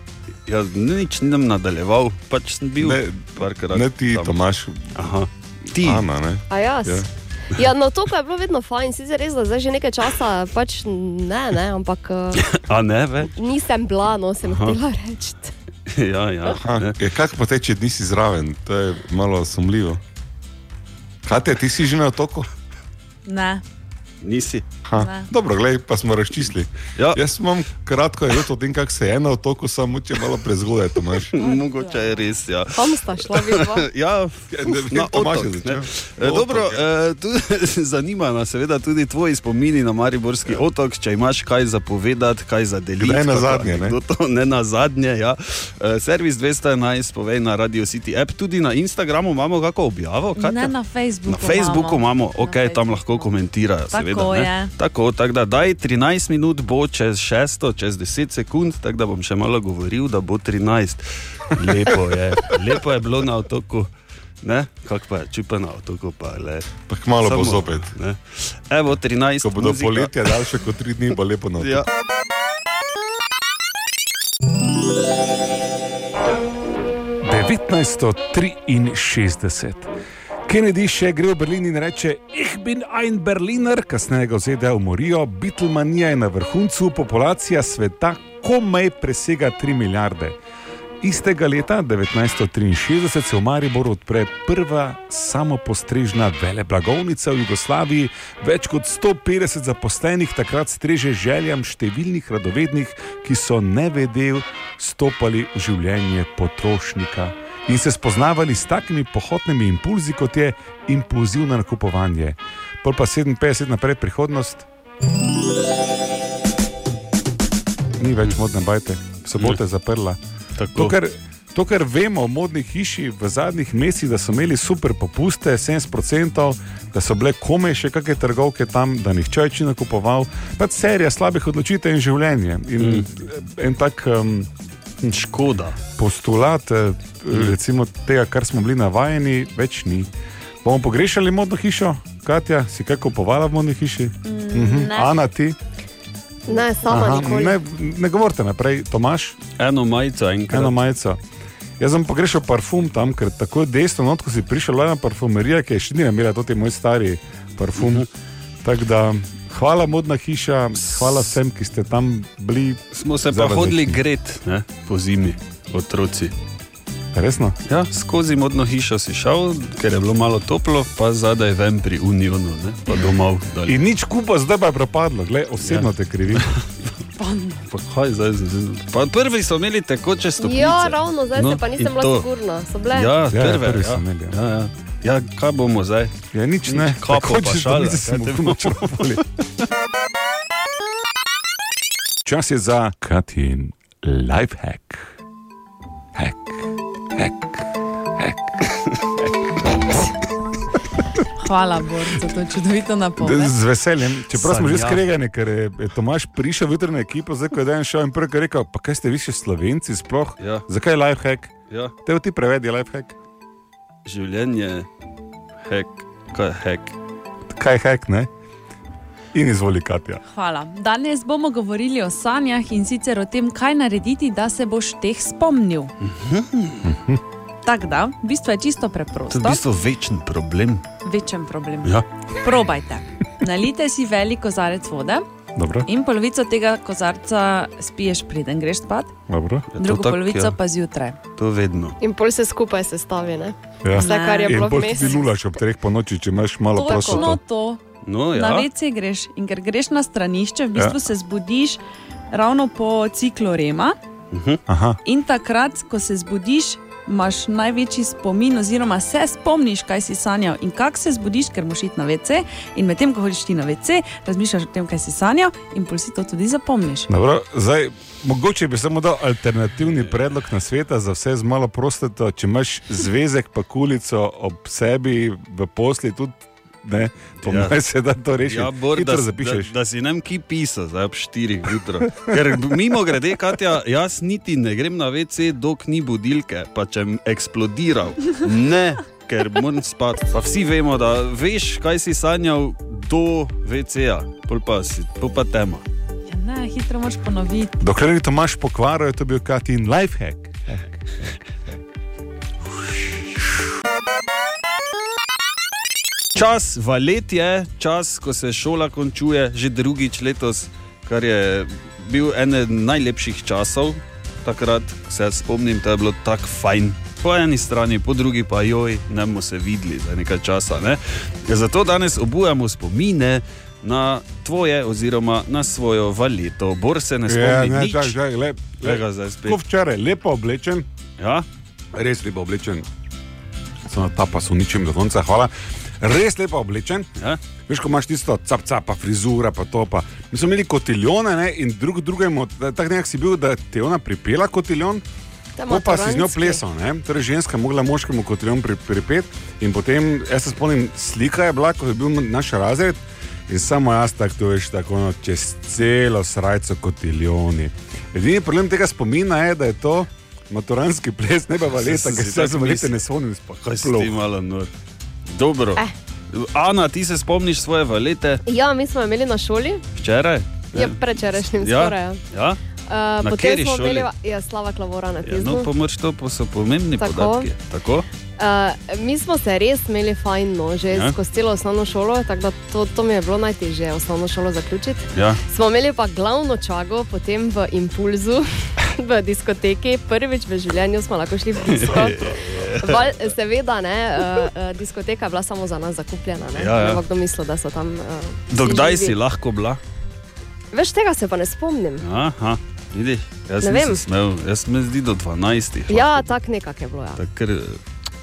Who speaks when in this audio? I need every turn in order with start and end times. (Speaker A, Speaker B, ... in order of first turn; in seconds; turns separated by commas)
Speaker A: 0.5-4.4, Speaker B: 2.8-5.0, Speaker A: 4.9-6.1, Speaker B: 5.8-7.0, Speaker C: 6.5-12.6, Speaker A: 12.3-13.3, Speaker C: 13.3-15.5, Speaker A: 14.4-14.8, Speaker A: 15.9-17.0, Speaker B: 16.6-20.0, Speaker B: 21.2-22.5, Speaker D: 23.2-23.6, Speaker A: 24.2-24.6, Speaker B: 24.8-31.3, Speaker D: 25.0-25.3, Speaker A: 31.2-50.7, Speaker C: 31.4-31.6, Speaker D: 31.9-32.3, Speaker C: 32.7-33.9, Speaker B: 34.5-36.8, Speaker B: 43.0-44.0, Speaker D: 50.4-53.3, Speaker A: 51.3-63.9, Speaker D: 53.9-54.7, Speaker A: 64.4-70.5, Speaker B: 66.9-67.9, Speaker B: 69.4-71.9, Speaker A: 71.6-71.9, Speaker E: 77.2-79.9, Speaker E: 80.5-90.4, Speaker E: 91.0-114.7, Speaker E: 118.0-120.2, Speaker A: 120.6-121.0, Speaker E: 120.7-134.5, Speaker A: 132.8-133.1, Speaker A: 135.0-135.8, Speaker E: 135.9-140.1, Speaker A: 137.3-137.6, Speaker E: 140.6-145.6, Speaker D: 144.2-145.2, Speaker C: 146.5-147.6, Speaker E: 146.9-149.4, Speaker A: 149.6-150.8, Speaker E: 150.5-151.2, Speaker E: 151.8-158.1, Speaker A: 157.8-158.1, Speaker E: 158.6-164.0, Speaker A: 160.8-161.4, Speaker A: 162.9-166.3, Speaker E: 167.1-167.6, Speaker A: 167.7-173.8, Speaker E: 173.7-176.5, Speaker A: 175.6-176.6, Speaker D: 177.2-177.6, Speaker A: 177.7-182.3, Speaker C: 180.4-183.1, Speaker A: 182.9-189.2, Speaker E: 183.3-184.4, Speaker E: 186.3-189.2, Speaker E: 192.2-195.1, Speaker E: 196.1-197.5, Speaker D: 201.4-203.5, Speaker E: 203.2-211.5, Speaker A: 204.3-205.0, Speaker A: 210.4-210.7, Speaker E: 212.0-213.2, Speaker A: 214.1-214.9, Speaker A: 215.6-216.9, Speaker E: 217.5-218.3, Speaker E: 219.3-220.2, Speaker D: 220.3-225.9, Speaker A: 226.0-226.9, Speaker E: 226.8-227.2, Speaker D: 227.6-229.6, Speaker A: 229.3-230.8, Speaker D: 231.0-235.2, Speaker E: 235.5-235.9, Speaker D: 235.8-239.1, Speaker E: 239.3-239.7, Speaker A: 239.7-240.5, Speaker D: 239.8-241.2, Speaker A: 241.4-241.9, Speaker C: 242.0-245.2, Speaker E: 243.8-247.4, Speaker D: 243.9-244.8, Speaker D: 246.7-247.8, Speaker C: 246.8-247.3, Speaker A: 248.0-248.7, Speaker D: 248.3-251.8, Speaker D: 252.3-254.0, Speaker A: 254.3-254.6, Speaker E: 254.7-255.0, Speaker D: 255.0-267.1, Speaker E: 267.1-279.7, Speaker A: 277.4-277.8, Speaker A: 278.4-295.8, Speaker D: 296.3-297.8, Speaker E: 297.8-301.0, Speaker A: 306.3-328.1, Speaker E: 327.3-330.9, Speaker A: 328.8-329.6, Speaker A: 331.2-331.4, Speaker E: 331.9-332.8, Speaker E: 333.9-337.1, Speaker E: 337.7-345.0, Speaker C: 345.6-346.6, Speaker E: 345.7-364.2, Speaker A: 361.8-363.0, Speaker A: 363.5-364.7, Speaker A: 365.3-368.4, Speaker C: 368.4-369.8, Speaker A: 370.0-372.6, Speaker C: 370.7-372.2, Speaker C: 372.9-375.7, Speaker A: 373.2-374.1, Speaker A: 375.2-378.1, Speaker C: 377.0-377.5, Speaker C: 378.4-399.1, Speaker A: 380.9-381.1, Speaker A: 385.1-385.4, Speaker A: 391.6-393.1, Speaker A: 396.5-397.0, Speaker A: 398.5-399.8, Speaker C: 400.7-402.1, Speaker A: 402.0-406.3, Speaker C: 403.6-404.0, Speaker C: 405.9-407.2, Speaker A: 407.1-407.8